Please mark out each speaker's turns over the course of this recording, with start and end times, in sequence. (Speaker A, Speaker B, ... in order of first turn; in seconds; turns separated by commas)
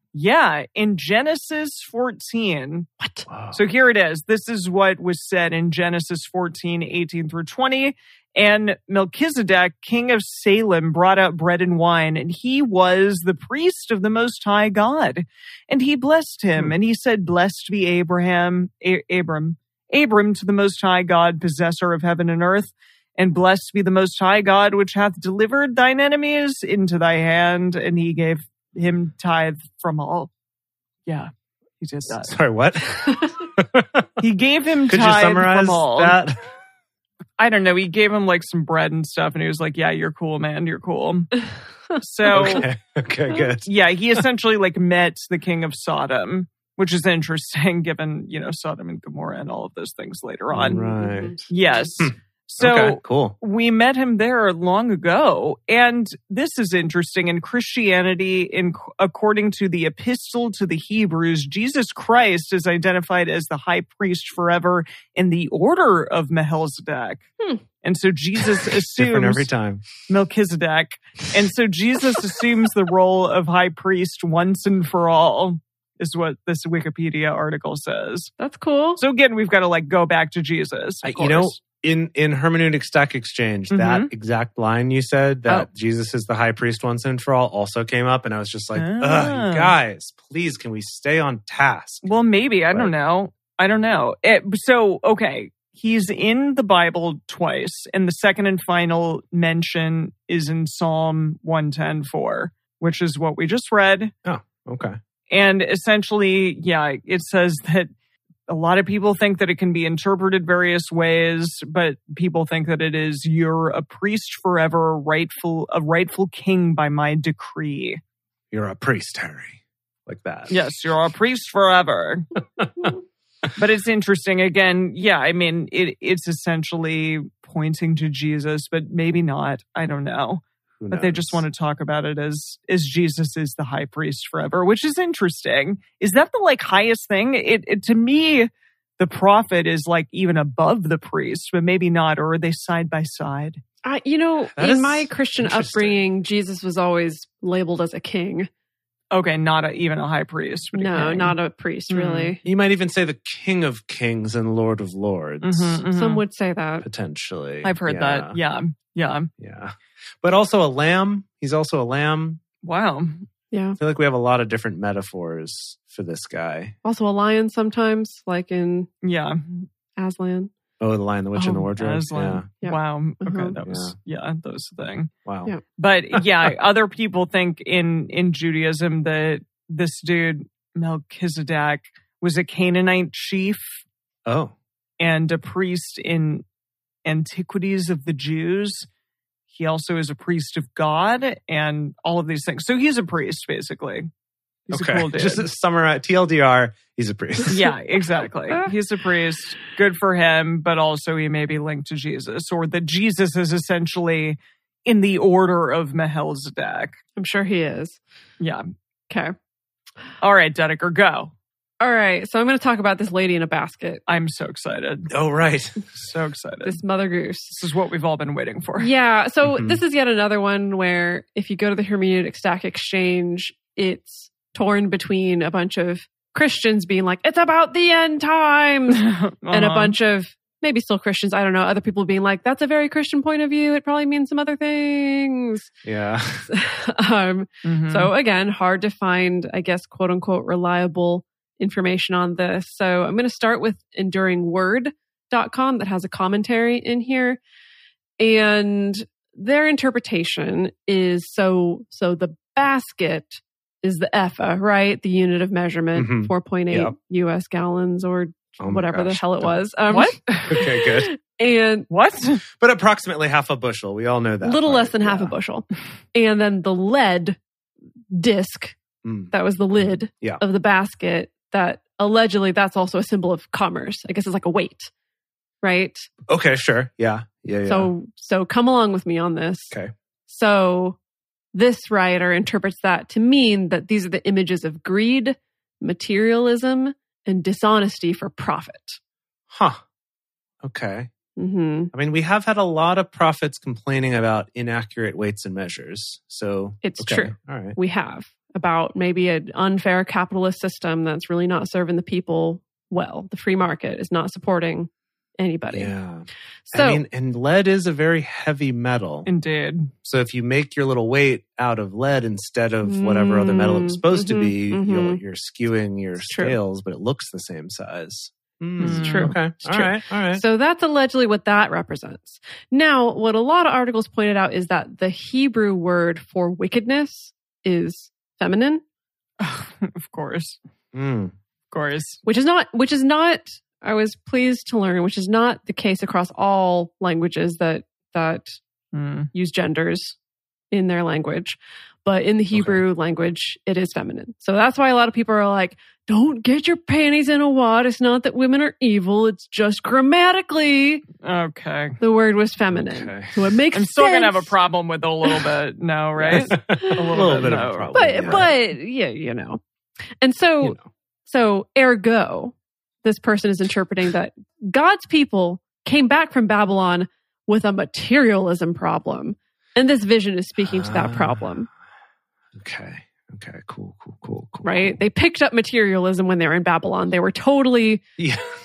Speaker A: 0.1-2.9, Speaker B: 3.0-3.2, Speaker C: 3.3-3.6, Speaker A: 3.5-30.3, Speaker A: 31.8-32.3, Speaker C: 32.1-34.1, Speaker A: 34.2-36.2, Speaker C: 34.9-36.4, Speaker A: 37.4-41.3, Speaker A: 42.0-42.7, Speaker C: 42.3-44.2, Speaker A: 43.6-50.9, Speaker C: 50.5-51.4, Speaker B: 50.7-51.4, Speaker A: 51.5-67.2, Speaker C: 52.0-53.4, Speaker A: 67.8-69.5, Speaker C: 69.0-69.8, Speaker A: 70.0-78.3, Speaker B: 78.4-79.0, Speaker A: 79.0-81.6, Speaker C: 81.0-92.0, Speaker A: 83.7-84.1, Speaker A: 88.7-89.7, Speaker A: 92.0-104.1, Speaker C: 104.2-105.0, Speaker A: 105.3-107.9, Speaker A: 108.5-118.0, Speaker C: 118.5-120.5, Speaker A: 120.5-122.3, Speaker C: 122.6-122.9, Speaker A: 123.5-143.6, Speaker C: 130.8-131.4, Speaker B: 143.8-148.5, Speaker C: 144.5-146.0, Speaker A: 149.1-151.4, Speaker B: 150.7-152.4, Speaker A: 151.9-152.3, Speaker C: 152.4-155.8, Speaker A: 155.4-156.2, Speaker B: 155.9-156.9, Speaker C: 156.8-158.4, Speaker A: 157.6-159.3, Speaker C: 159.4-162.4, Speaker A: 162.6-163.3, Speaker B: 163.5-163.8, Speaker C: 163.8-166.8, Speaker B: 166.8-168.9, Speaker A: 169.0-169.7, Speaker B: 169.9-170.5, Speaker C: 170.8-172.5, Speaker B: 171.3-171.7, Speaker A: 171.8-175.1, Speaker B: 172.6-173.6, Speaker C: 173.6-173.9, Speaker C: 175.2-175.5, Speaker A: 175.8-183.8, Speaker C: 184.2-184.5, Speaker A: 185.0-186.4, Speaker A: 187.0-188.9, Speaker A: 189.5-194.1, Speaker A: 194.7-195.5, Speaker C: 194.7-197.7, Speaker A: 197.5-207.0, Speaker B: 207.2-208.0, Speaker B: 209.1-209.3, Speaker A: 210.2-211.3, Speaker B: 211.8-214.0, Speaker A: 214.1-215.1, Speaker C: 215.1-215.9, Speaker A: 215.9-216.8, Speaker B: 216.6-217.6, Speaker A: 217.5-218.9, Speaker B: 218.8-235.7, Speaker C: 219.4-219.8, Speaker A: 228.9-229.9, Speaker C: 235.8-236.5, Speaker B: 236.5-247.4, Speaker A: 237.6-238.1, Speaker B: 248.2-261.9, Speaker C: 255.9-256.9, Speaker C: 258.6-259.6, Speaker A: 259.9-260.3, Speaker C: 260.5-261.1, Speaker A: 261.9-262.4, Speaker C: 262.6-265.3, Speaker B: 264.4-267.4, Speaker B: 268.1-268.8, Speaker C: 269.0-269.3, Speaker B: 269.3-274.9, Speaker B: 275.6-276.1, Speaker C: 276.3-277.9, Speaker B: 277.6-279.7, Speaker B: 280.3-281.0, Speaker B: 281.5-289.0, Speaker C: 289.5-289.8, Speaker C: 290.6-291.1, Speaker B: 291.4-291.9, Speaker C: 291.9-297.8, Speaker B: 296.8-305.9, Speaker C: 305.7-309.3, Speaker B: 306.7-307.0, Speaker A: 309.2-309.9, Speaker C: 310.0-320.4, Speaker B: 312.8-315.2, Speaker B: 316.2-316.6, Speaker A: 318.8-319.3, Speaker B: 318.8-328.8, Speaker A: 329.4-330.6, Speaker C: 330.9-331.3, Speaker A: 331.7-332.2, Speaker B: 332.2-338.6, Speaker A: 338.9-339.3, Speaker B: 339.3-340.1, Speaker B: 340.7-351.1, Speaker C: 342.5-342.8, Speaker A: 351.2-352.0, Speaker B: 352.0-354.5, Speaker C: 352.7-353.4, Speaker A: 353.7-358.4, Speaker C: 356.2-358.5, Speaker B: 356.3-357.1, Speaker B: 357.9-359.6, Speaker B: 360.2-371.7, Speaker C: 370.6-371.5, Speaker C: 372.5-375.0, Speaker B: 374.6-378.0, Speaker C: 378.2-378.4